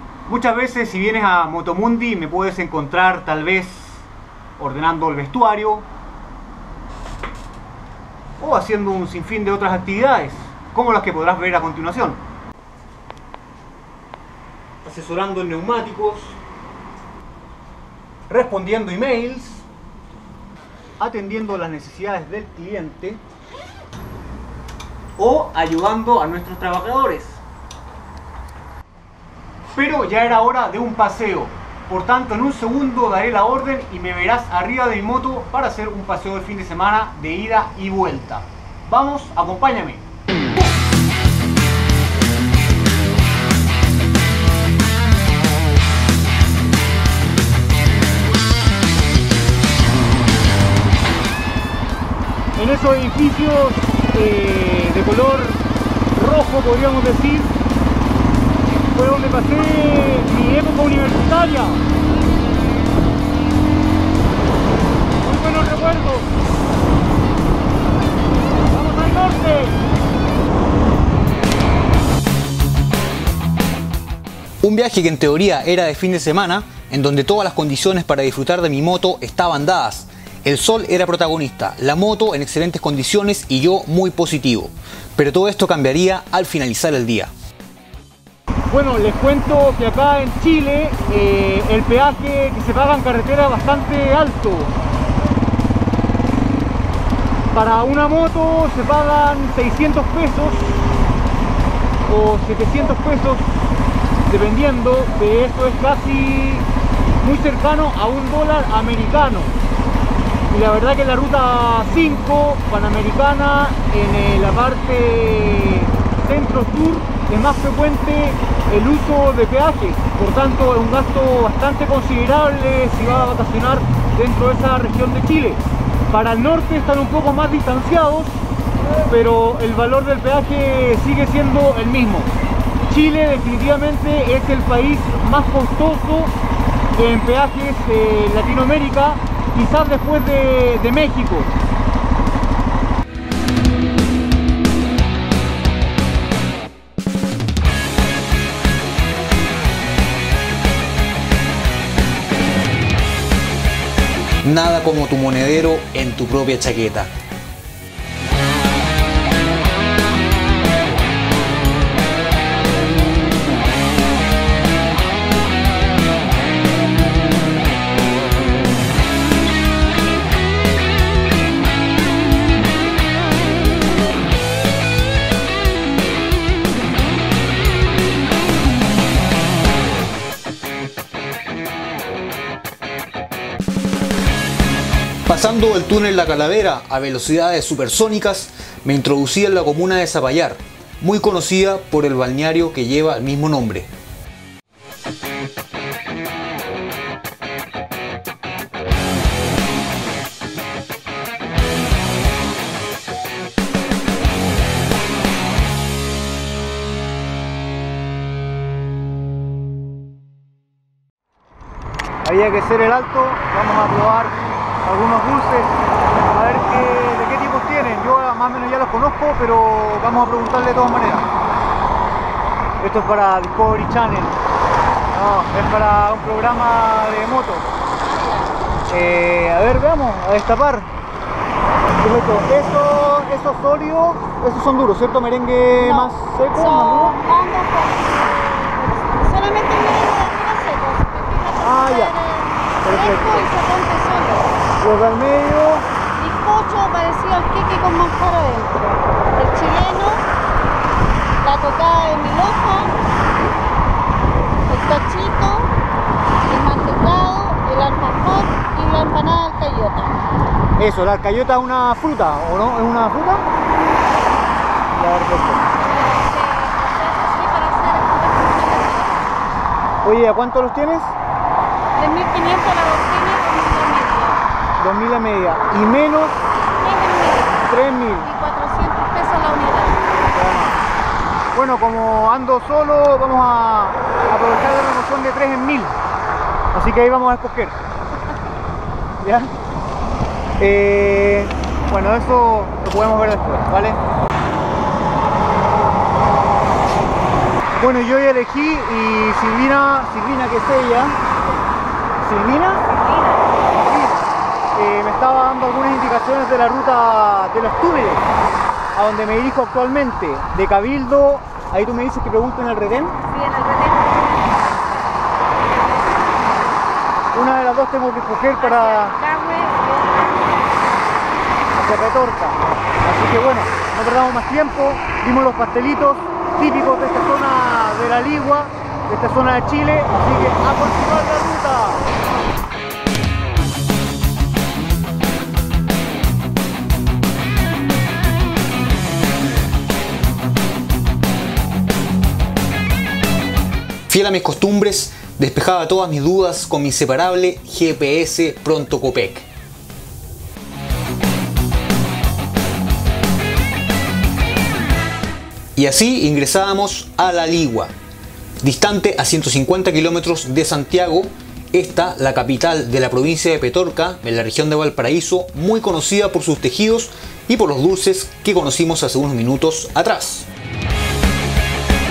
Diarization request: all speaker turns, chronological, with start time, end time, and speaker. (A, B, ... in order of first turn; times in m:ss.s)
0:00.2-0:04.0 A
0:04.6-0:05.9 A
0:08.4-0:12.2 A
0:14.8-0:16.4 A
0:18.3-0:19.6 A
0:21.0-0:23.2 A
0:25.2-0:27.4 A
0:29.7-0:40.0 A
0:52.6-0:55.6 A
0:56.1-0:57.5 A
0:58.9-1:01.8 A
1:05.2-1:06.3 A
1:08.7-1:09.8 A
1:14.6-1:27.3 B
1:28.7-1:34.7 A
1:37.5-1:41.0 A
1:42.0-1:43.6 A
1:44.2-1:46.7 A
1:47.2-1:49.6 A
1:50.5-2:08.4 A
2:09.1-2:12.3 A
2:12.9-2:16.3 A
2:16.9-2:21.5 A
2:34.4-2:37.1 B
3:05.2-3:13.9 B
3:32.2-3:35.8 A
3:36.3-3:41.3 A
3:42.8-3:44.4 A
3:45.1-3:47.7 A
3:48.0-3:48.5 C
3:48.9-3:50.9 A
3:52.0-3:57.2 A
3:55.8-4:04.5 C
4:01.6-4:02.2 A
4:02.8-4:03.5 A
4:04.8-4:05.9 A
4:06.1-4:10.2 C
4:11.4-4:13.0 C
4:14.7-4:15.7 C
4:16.5-4:20.2 C
4:20.8-4:23.4 A
4:24.9-4:25.7 A
4:25.8-4:29.3 C
4:30.0-4:31.1 A
4:31.9-4:34.4 C
4:34.8-4:36.4 A
4:36.8-4:40.1 C
4:37.6-4:38.3 A
4:40.3-4:40.8 A
4:41.5-4:46.0 A
4:46.7-4:47.8 A
4:49.2-4:49.5 A
4:50.6-4:54.0 A
4:57.8-5:01.2 A
5:02.2-5:02.9 A
5:02.8-5:03.6 C
5:03.7-5:08.3 A
5:08.9-5:13.2 A
5:13.2-5:14.9 C
5:17.3-5:19.2 A
5:18.6-5:20.8 C
5:21.7-5:32.1 A
5:44.1-5:49.4 B
5:55.8-5:57.9 B
5:58.6-6:10.5 B